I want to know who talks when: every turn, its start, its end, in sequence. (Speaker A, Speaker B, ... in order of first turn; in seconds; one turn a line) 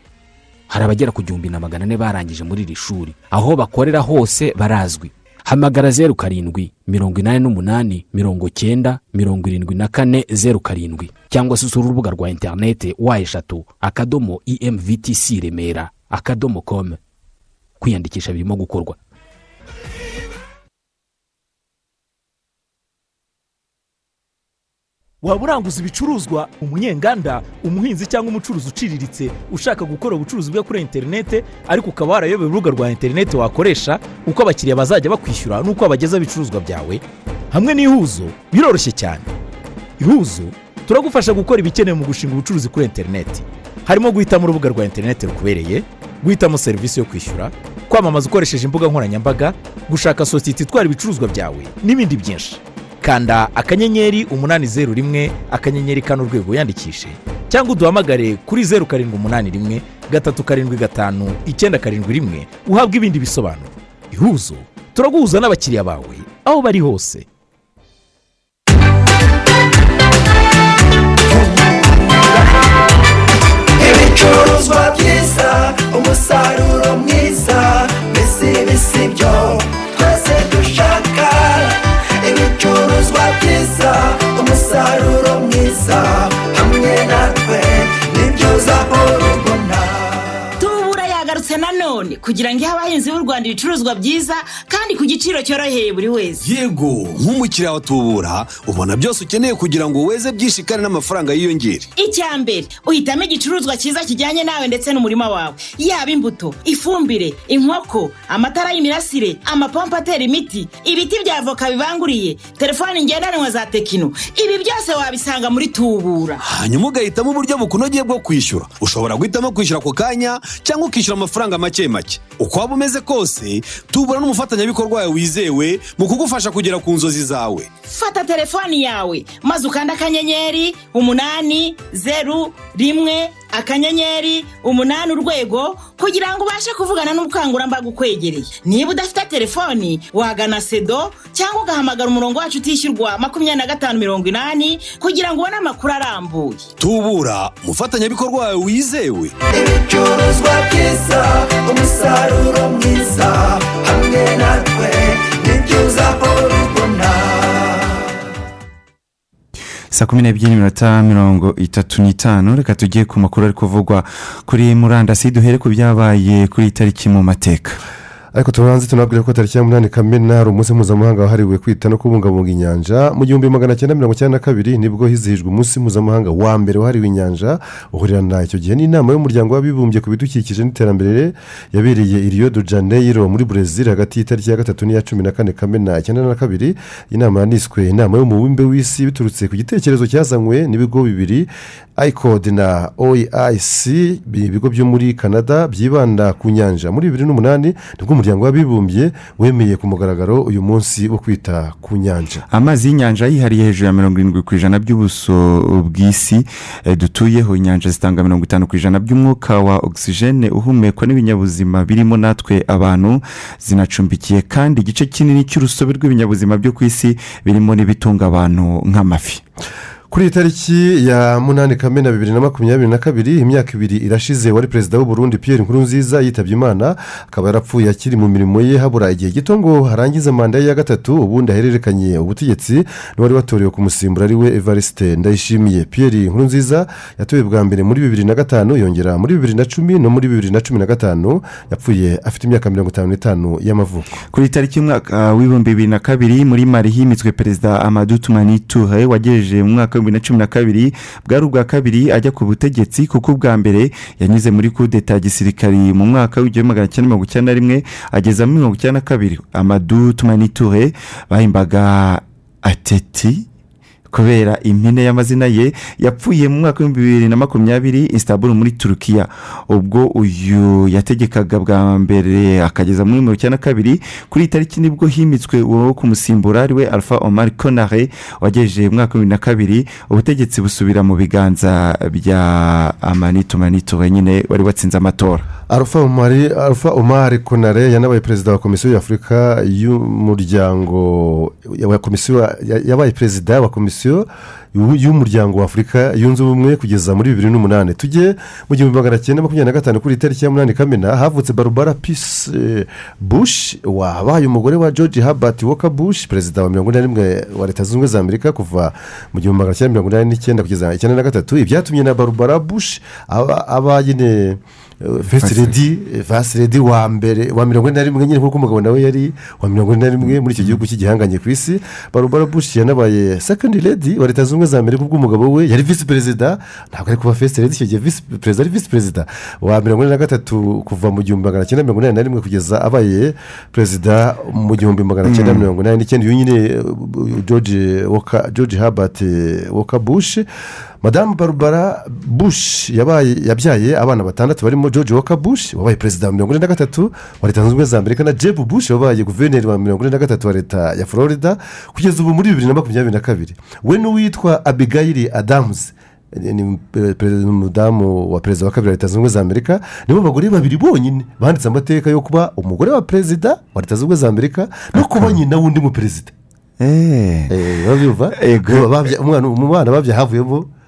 Speaker A: 0.7-17.0
Speaker A: 17.8-19.0
Speaker B: 25.2-39.3
Speaker B: 40.0-67.2
Speaker C: 73.8-81.4
Speaker C: 82.3-89.8
Speaker D: 90.6-96.5
Speaker E: 96.4-101.8
Speaker D: 102.0-116.4
Speaker E: 116.5-127.6
Speaker C: 126.6-127.1
Speaker D: 127.8-146.7
Speaker E: 146.8-149.3
Speaker C: 149.7-157.1
Speaker F: 159.9-167.8
Speaker G: 168.3-202.4
Speaker F: 202.5-219.4
Speaker G: 220.1-244.2
Speaker F: 244.3-263.4
Speaker F: 264.1-285.4
Speaker G: 285.7-340.4
Speaker F: 315.4-315.7
Speaker F: 320.3-320.8
Speaker F: 335.2-335.7
Speaker G: 341.0-366.3
Speaker F: 365.0-365.4
Speaker F: 366.8-367.5
Speaker G: 367.5-370.7
Speaker F: 368.3-368.9